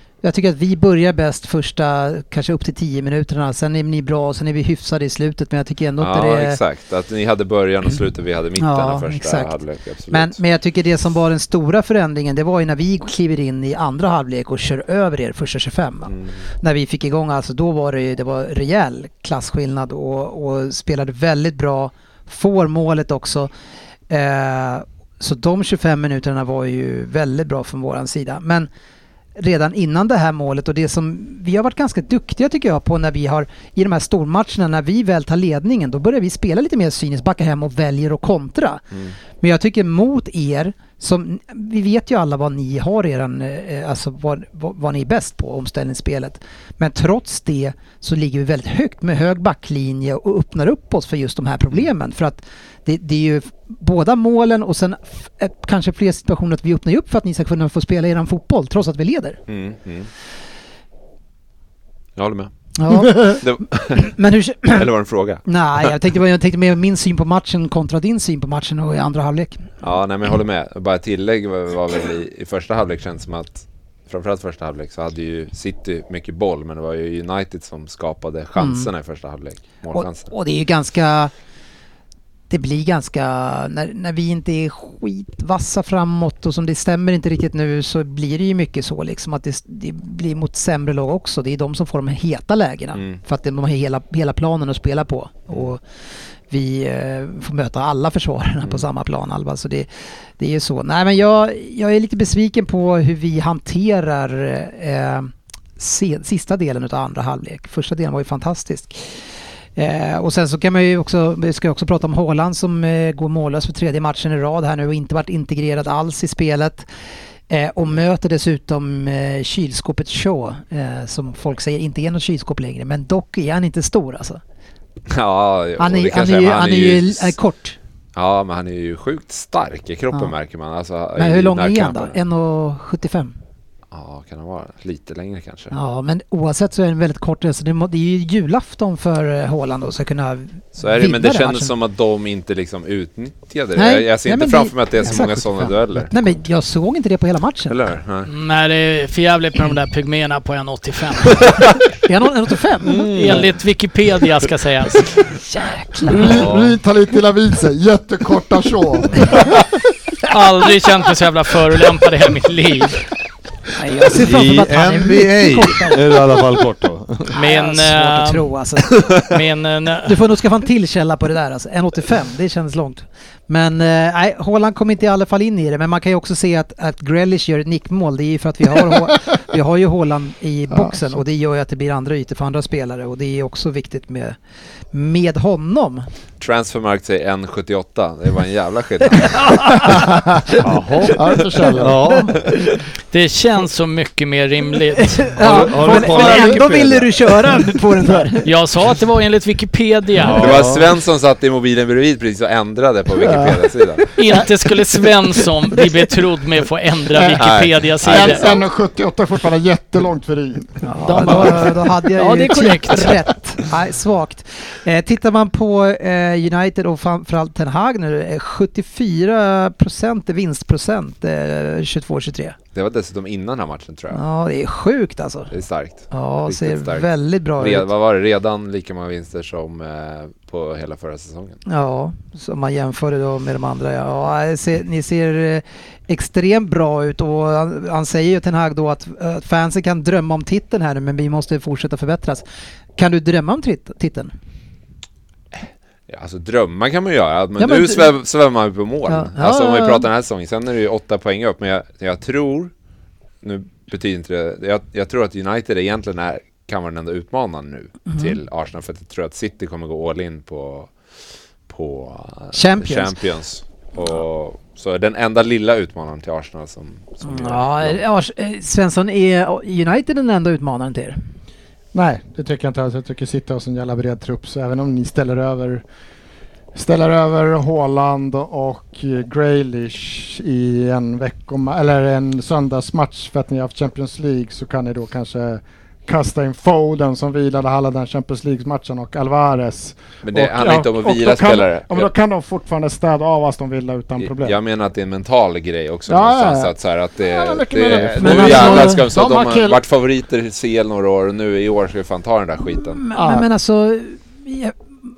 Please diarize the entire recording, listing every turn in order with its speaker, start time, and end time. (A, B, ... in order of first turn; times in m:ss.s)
0:00.2-0:06.6 A
0:06.0-0:10.4 B
0:08.6-0:09.6 A
0:10.1-0:23.5 A
0:16.1-0:16.4 B
0:24.1-0:28.7 A
0:29.4-0:38.9 A
0:39.4-0:59.4 A
0:59.5-1:00.1 B
1:02.2-1:04.1 B
1:02.8-1:04.9 A
1:04.7-1:05.9 B
1:05.4-1:09.7 A
1:09.8-1:20.3 B
1:18.6-1:18.9 A
1:19.9-1:21.3 A
1:22.5-1:35.8 A
1:36.5-1:49.0 A
1:49.8-1:56.9 A
1:57.5-2:04.4 A
2:05.1-2:07.4 B
2:05.8-2:07.8 A
2:08.2-2:12.2 B
2:11.2-2:13.3 A
2:13.9-2:15.7 B
2:15.7-2:21.7 A
2:20.8-2:26.3 B
2:23.8-2:27.8 A
2:27.7-2:28.3 B
2:28.3-2:31.6 C
2:32.0-2:33.2 A
2:32.8-2:33.5 D
2:33.0-2:35.1 C
2:35.3-2:36.4 A
2:36.1-2:39.5 E
2:36.2-2:36.8 D
2:40.2-2:43.0 C
2:43.8-2:46.2 A
2:44.1-2:47.3 D
2:47.3-2:48.5 C
2:47.3-2:49.2 A
2:49.3-2:50.2 C
2:50.1-3:04.4 A
3:04.9-3:06.1 A
3:06.4-3:10.0 B
3:09.5-3:09.9 A
3:10.6-3:12.4 D
3:11.1-3:12.0 E
3:12.0-3:12.4 A
3:13.1-3:16.4 C
3:15.0-3:18.5 A
3:15.4-3:17.7 D
3:16.1-3:16.6 E
3:18.4-3:20.5 C
3:20.2-3:20.9 D
3:20.3-3:24.1 B
3:23.2-3:23.6 E
3:24.2-3:28.5 C
3:24.2-3:24.5 E
3:27.4-3:28.6 B
3:28.0-3:31.4 E
3:30.8-3:42.6 A
3:31.1-3:33.2 C
3:42.7-3:44.2 B
3:44.1-3:45.5 A
3:45.5-3:51.6 B
3:46.1-3:47.9 A
3:51.7-4:02.4 A
4:03.0-4:04.3 A
4:06.1-4:12.7 B
4:07.6-4:08.1 A
4:09.1-4:10.1 A
4:13.4-4:20.9 B
4:18.1-4:18.4 A
4:21.7-4:28.0 B
4:22.5-4:23.2 A
4:27.2-4:31.2 A
4:31.9-4:35.8 E
4:36.7-4:54.6 E
4:50.2-4:52.1 B
4:54.2-5:03.0 B
4:56.1-4:59.8 E
4:58.2-4:59.0 A
5:02.7-5:04.8 A
5:03.1-5:03.5 E